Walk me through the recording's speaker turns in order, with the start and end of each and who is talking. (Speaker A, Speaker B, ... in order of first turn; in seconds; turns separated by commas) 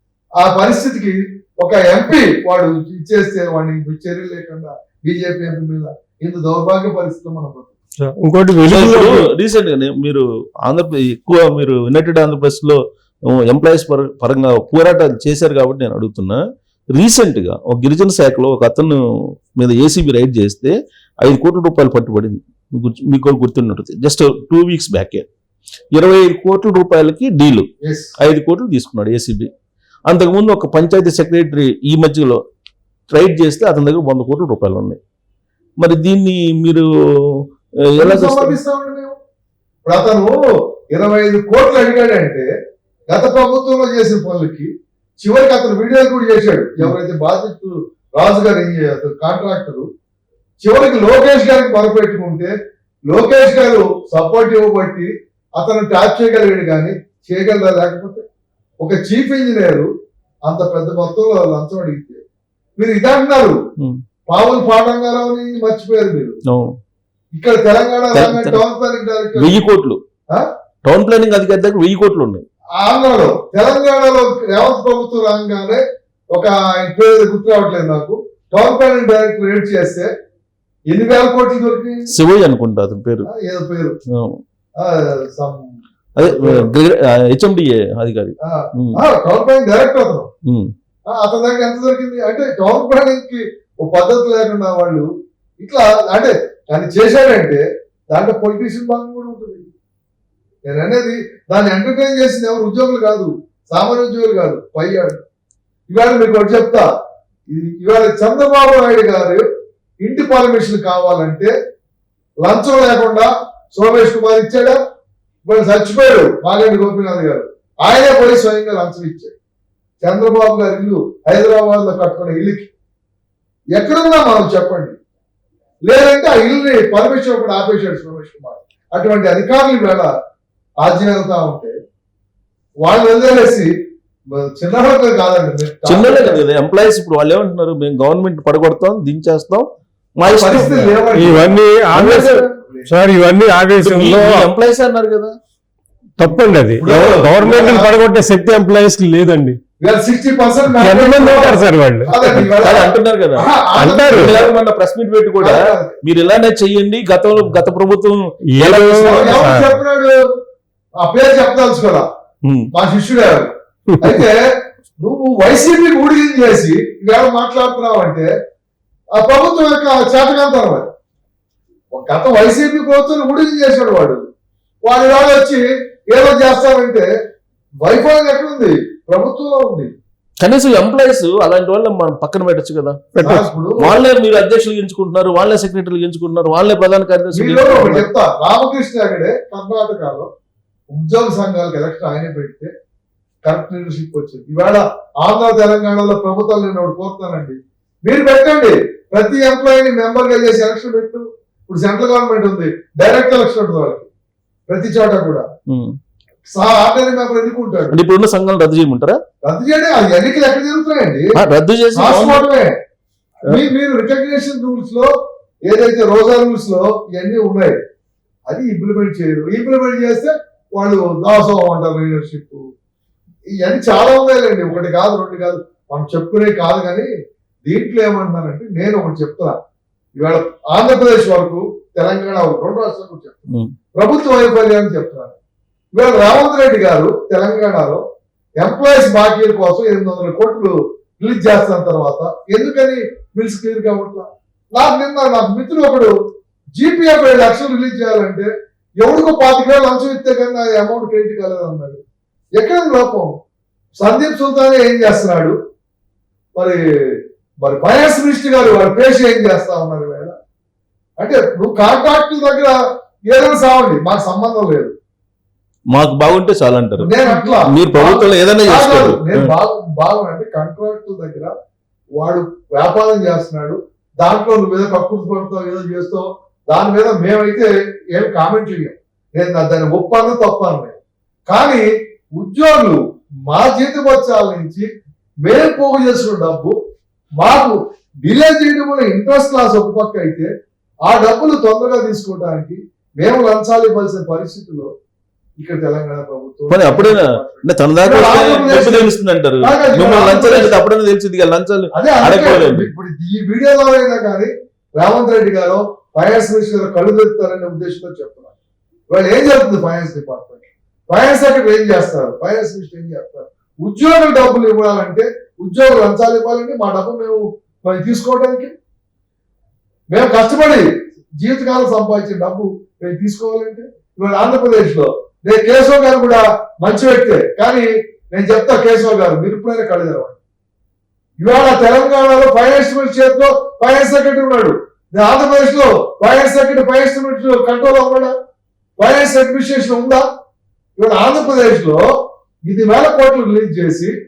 Speaker A: 0.4-7.8, Speaker B: 8.0-9.3, Speaker C: 8.7-16.4, Speaker C: 16.9-19.0, Speaker C: 19.6-25.2, Speaker C: 25.9-27.7, Speaker A: 27.8-28.1, Speaker C: 28.2-29.5, Speaker C: 30.1-32.4, Speaker C: 33.1-35.0, Speaker C: 35.8-37.4, Speaker C: 37.9-38.5, Speaker A: 38.0-39.2, Speaker A: 39.9-42.5, Speaker A: 43.1-49.9, Speaker A: 50.6-52.5, Speaker A: 53.1-58.2, Speaker A: 58.8-59.9, Speaker A: 60.5-62.2, Speaker A: 62.8-63.6, Speaker A: 64.3-66.4, Speaker C: 66.5-66.8, Speaker A: 67.3-69.6, Speaker C: 68.1-68.6, Speaker C: 69.3-70.0, Speaker C: 70.8-72.4, Speaker A: 72.8-80.1, Speaker A: 80.9-82.1, Speaker C: 82.1-83.3, Speaker A: 83.2-84.0, Speaker C: 84.1-84.4, Speaker A: 84.8-85.6, Speaker C: 86.2-89.0, Speaker A: 86.2-86.7, Speaker A: 88.4-90.3, Speaker C: 90.5-90.7, Speaker A: 91.1-95.1, Speaker A: 95.6-99.7, Speaker A: 100.7-105.2, Speaker A: 105.9-106.9, Speaker A: 107.5-109.4, Speaker A: 110.0-111.5, Speaker A: 112.4-114.8, Speaker A: 115.4-119.3, Speaker A: 120.0-122.7, Speaker A: 123.7-125.0, Speaker A: 125.8-130.1, Speaker A: 130.8-131.8, Speaker A: 132.8-133.7, Speaker A: 134.3-136.4, Speaker C: 135.8-139.7, Speaker C: 140.2-141.2, Speaker A: 140.2-142.9, Speaker B: 141.2-144.4, Speaker C: 141.9-142.2, Speaker C: 143.8-145.3, Speaker B: 146.2-149.6, Speaker A: 146.8-147.9, Speaker A: 149.8-154.5, Speaker B: 150.7-152.1, Speaker C: 152.1-153.5, Speaker B: 153.8-154.3, Speaker C: 154.1-159.5, Speaker A: 155.4-156.0, Speaker B: 158.5-159.8, Speaker A: 159.0-160.3, Speaker A: 161.0-162.1, Speaker C: 162.4-162.7, Speaker A: 162.7-168.3, Speaker B: 163.9-164.2, Speaker A: 169.1-170.9, Speaker A: 171.9-174.3, Speaker A: 174.8-177.1, Speaker A: 177.8-179.9, Speaker C: 180.4-183.1, Speaker B: 183.1-183.4, Speaker A: 183.2-183.9, Speaker C: 183.8-188.1, Speaker A: 187.3-190.3, Speaker A: 190.9-192.7, Speaker A: 193.4-204.1, Speaker A: 204.7-205.5, Speaker C: 205.7-205.9, Speaker A: 206.5-208.0, Speaker C: 207.9-209.2, Speaker A: 209.4-211.3, Speaker C: 211.3-212.4, Speaker A: 211.9-212.8, Speaker A: 213.5-215.1, Speaker A: 215.7-217.8, Speaker A: 218.5-222.7, Speaker A: 223.6-227.1, Speaker A: 227.7-229.6, Speaker A: 230.2-233.4, Speaker A: 233.9-235.3, Speaker A: 235.9-238.0, Speaker A: 238.6-246.1, Speaker A: 246.8-252.0, Speaker A: 252.6-253.4, Speaker A: 254.0-255.6, Speaker A: 256.5-260.3, Speaker A: 261.2-264.9, Speaker C: 265.9-269.5, Speaker A: 267.0-271.5, Speaker A: 272.1-281.0, Speaker A: 281.5-284.9, Speaker A: 285.4-286.8, Speaker A: 287.4-290.5, Speaker A: 291.0-294.9, Speaker A: 295.6-300.8, Speaker C: 296.7-302.9, Speaker A: 301.9-308.5, Speaker A: 309.1-318.7, Speaker A: 320.1-330.4, Speaker A: 331.4-338.3, Speaker A: 339.0-340.2, Speaker A: 341.0-342.1, Speaker A: 342.6-344.1